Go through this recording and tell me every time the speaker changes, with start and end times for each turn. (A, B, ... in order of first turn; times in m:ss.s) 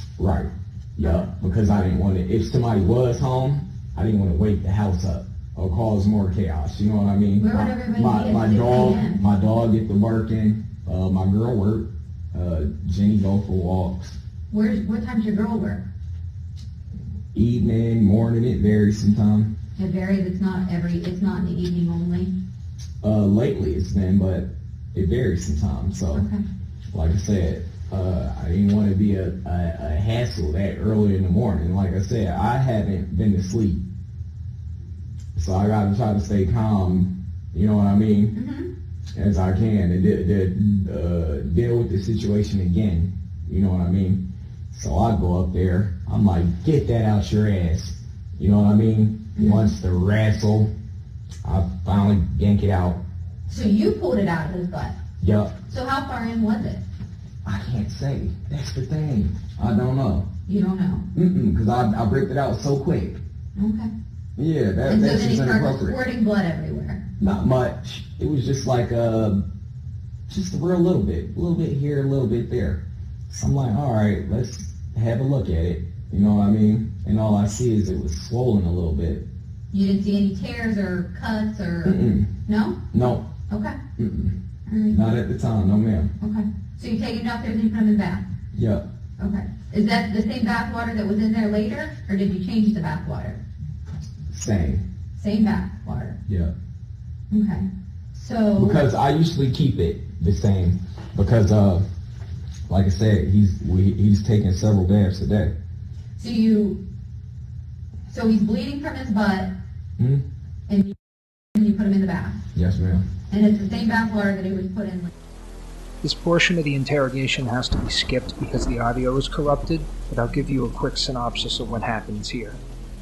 0:00.2-0:14.2 A
0:07.4-0:09.2 B
0:14.5-0:15.8 B
0:17.3-0:19.5 A
0:19.8-0:22.3 B
0:23.0-0:26.3 A
0:26.1-0:26.4 B
0:26.9-0:33.8 A
0:35.3-0:38.4 A
0:38.3-0:38.7 B
0:39.1-0:50.7 A
0:49.4-0:49.7 B
0:51.4-0:53.0 A
0:53.5-0:55.0 B
0:55.2-0:55.6 A
0:55.7-0:56.8 B
0:57.4-1:00.3 A
1:00.4-1:01.1 B
1:01.1-1:03.2 A
1:03.6-1:03.9 B
1:04.4-1:06.0 A
1:04.9-1:07.0 B
1:07.2-1:09.4 A
1:10.3-1:19.2 A
1:19.7-1:22.8 B
1:21.8-1:22.3 A
1:22.9-1:23.3 A
1:23.5-1:23.8 B
1:24.0-1:24.4 A
1:24.7-1:25.0 B
1:24.9-1:26.1 A
1:26.2-1:28.2 B
1:28.5-1:28.8 A
1:29.2-1:33.4 B
1:34.3-1:34.8 A
1:35.2-1:36.2 B
1:36.3-1:36.5 A
1:37.3-1:38.8 B
1:38.6-1:41.8 A
1:42.7-1:45.5 A
1:46.2-1:46.8 B
1:48.1-1:49.5 B
1:50.0-1:50.2 A
1:50.7-1:51.0 B
1:51.5-1:52.4 B
1:52.5-1:53.0 A
1:53.3-1:55.1 B
1:56.0-2:02.6 C